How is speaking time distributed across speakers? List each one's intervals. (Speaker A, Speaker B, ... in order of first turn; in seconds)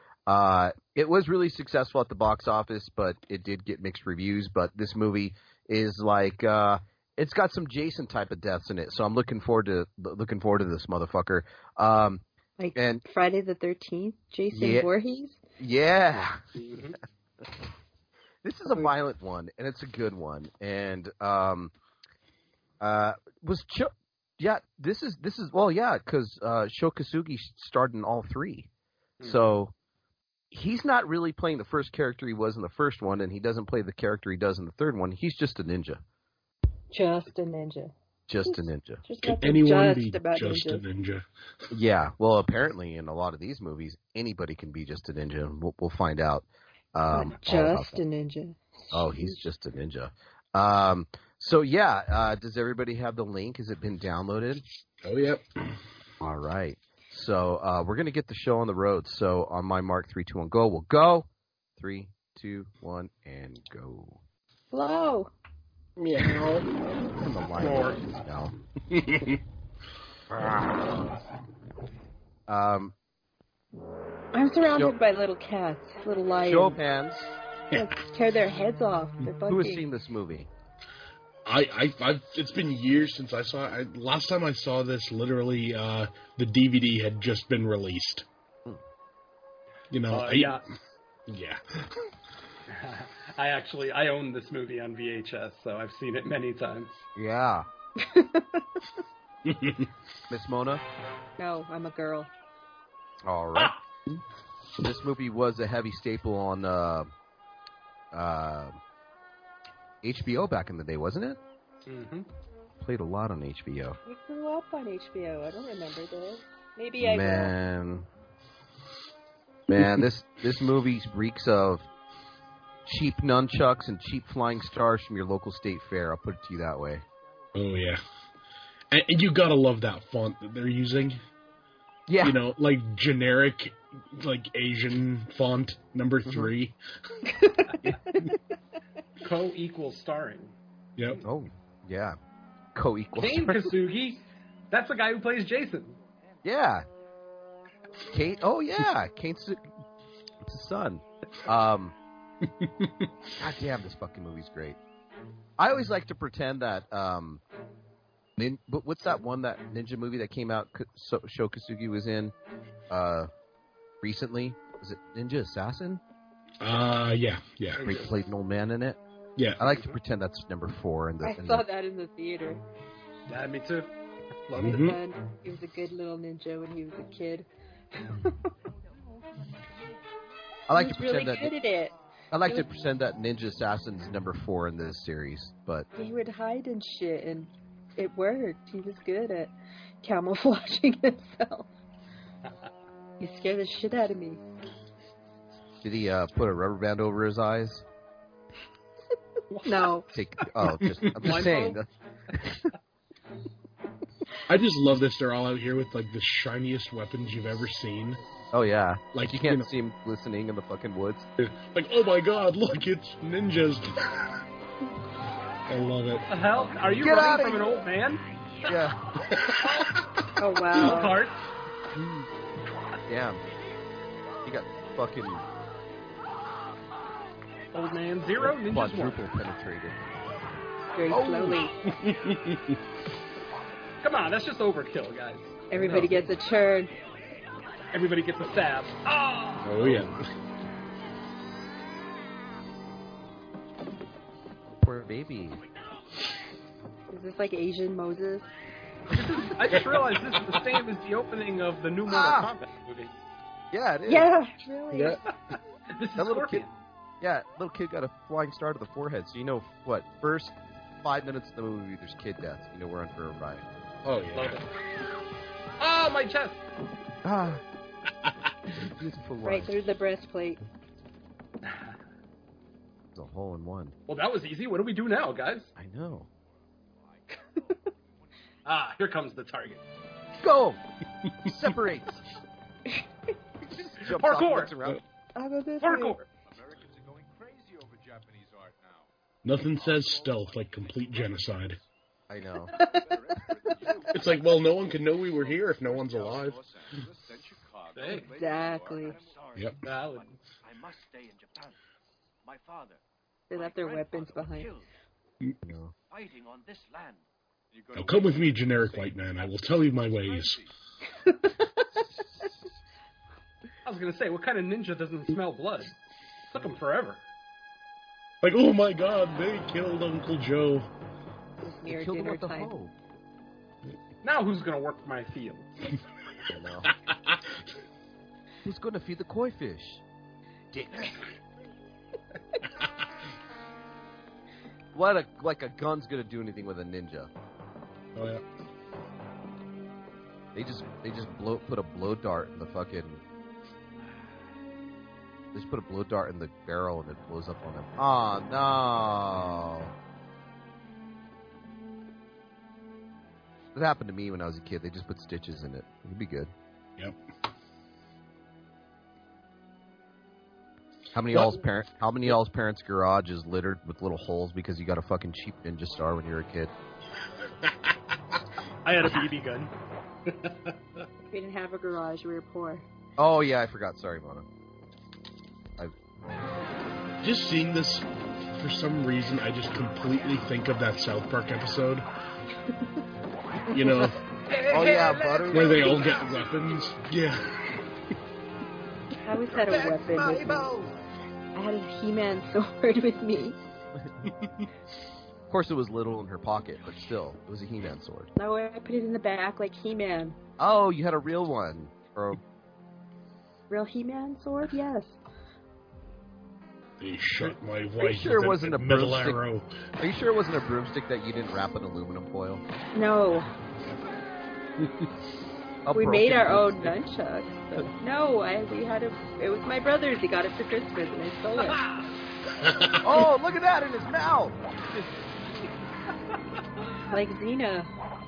Speaker A: 0.3-12.2, 12.8-13.0, 14.5-14.9, 15.6-16.4, 18.4-21.7, 22.8-28.7, 29.2-29.7, 30.5-36.0, 38.3-39.0, 41.7-48.0, 48.9-54.6, 56.2-64.2, 67.2-68.5, 72.5-72.9, 74.7-74.9, 76.4-77.3, 79.5-80.5, 97.2-97.7, 100.3-100.8, 103.2-103.7, 104.8-107.1, 108.1-108.8, 110.0-111.4, 112.8-114.0, 117.0-118.1, 119.7-121.9, 122.9-127.0, 132.1-132.4, 136.3-136.5, 141.2-142.2, 142.8-143.8, 146.4-146.9, 148.1-149.6, 150.4-151.9, 153.4-154.8, 155.6-157.4, 158.4-162.3, 162.9-163.3, 164.0-166.0, 167.8-169.0, 169.6-171.7, 180.7-181.6, 182.3-185.9, 195.8-197.8, 200.1-201.9, 208.5-211.3, 216.8-217.8, 218.6-219.1, 223.1-223.4, 224.4-225.4, 228.4-230.0, 231.1-231.7, 235.7-236.2, 244.8-245.6, 252.1-252.5, 253.7-254.3, 256.2-256.6, 257.2-263.6, 267.2-267.6, 268.8-269.7, 273.1-273.9, 275.8-276.3, 280.4-280.8, 281.4-282.2, 283.8-285.0, 292.3-292.8, 305.6-305.9, 321.9-322.9, 326.5-326.9, 328.6-330.0, 330.7-331.1, 334.9-337.3, 340.6-343.2, 345.5-349.9, 353.8-356.5, 361.1-366.7, 373.2-374.5, 383.7-384.1, 384.7-386.2, 389.5-390.9, 394.0-394.3, 395.5-398.3, 400.6-402.4, 408.0-409.4, 410.0-412.6, 415.9-417.0, 422.9-424.6
Speaker B: 12.6-15.4, 36.9-37.9, 38.5-40.9, 47.1-49.4, 64.7-65.3, 74.3-76.8, 77.7-79.9, 98.0-98.6, 101.4-102.3, 114.1-117.5, 137.3-137.7, 171.2-172.6, 174.7-177.5, 178.0-178.4, 180.7-181.9, 185.9-191.7, 193.2-194.4, 199.7-200.1, 220.4-221.2, 230.9-231.7, 235.7-236.9, 247.1-248.5, 254.1-255.2, 269.4-270.6, 285.4-286.2, 292.7-293.0, 298.4-299.2, 303.5-304.7, 311.2-311.8, 321.6-322.7, 371.3-372.8, 389.2-390.7, 391.6-393.6, 398.4-400.4, 403.7-405.2, 412.9-413.5, 415.9-421.8, 427.1-427.9
Speaker C: 16.6-17.0, 29.2-29.5, 67.6-68.1, 90.1-90.7, 92.7-97.1, 111.9-112.3, 139.2-140.6, 143.2-146.0, 167.8-168.2, 169.7-170.0, 173.3-173.9, 174.5-174.8, 199.5-200.1, 201.2-201.8, 216.3-218.2, 220.8-221.4, 227.7-229.2, 234.0-235.6, 237.9-240.0, 249.1-253.2, 255.9-256.8, 264.3-264.7, 265.8-266.6, 271.6-271.9, 274.1-275.7, 278.6-279.8, 284.1-284.8, 285.8-286.3, 297.9-298.3, 299.8-300.4, 313.9-315.9, 316.5-317.2, 324.2-325.9, 368.9-369.7, 370.3-371.0, 384.5-386.4, 421.6-422.1
Speaker D: 39.2-41.2, 55.0-55.4, 66.0-66.7, 68.9-69.3, 81.5-88.3, 89.9-90.6, 91.3-91.6, 99.5-99.9, 119.8-120.1, 127.5-128.0, 128.9-131.2, 132.2-136.8, 152.4-152.9, 166.6-167.9, 169.4-169.6, 174.6-175.0, 204.5-208.2, 209.1-209.7, 211.4-214.2, 215.7-216.2, 231.9-232.8, 239.6-240.2, 254.9-255.2, 264.1-264.6, 289.4-291.8, 294.1-296.6, 307.9-310.6, 318.4-320.9, 327.0-327.4, 338.1-338.4, 377.2-382.1, 383.7-384.2, 385.5-387.5, 394.4-394.7, 407.0-409.7, 422.6-423.3
Speaker E: 276.1-278.3, 286.4-289.1, 289.6-291.8, 292.8-299.2, 307.7-310.7
Speaker F: 299.0-301.8, 302.4-304.9, 306.1-307.2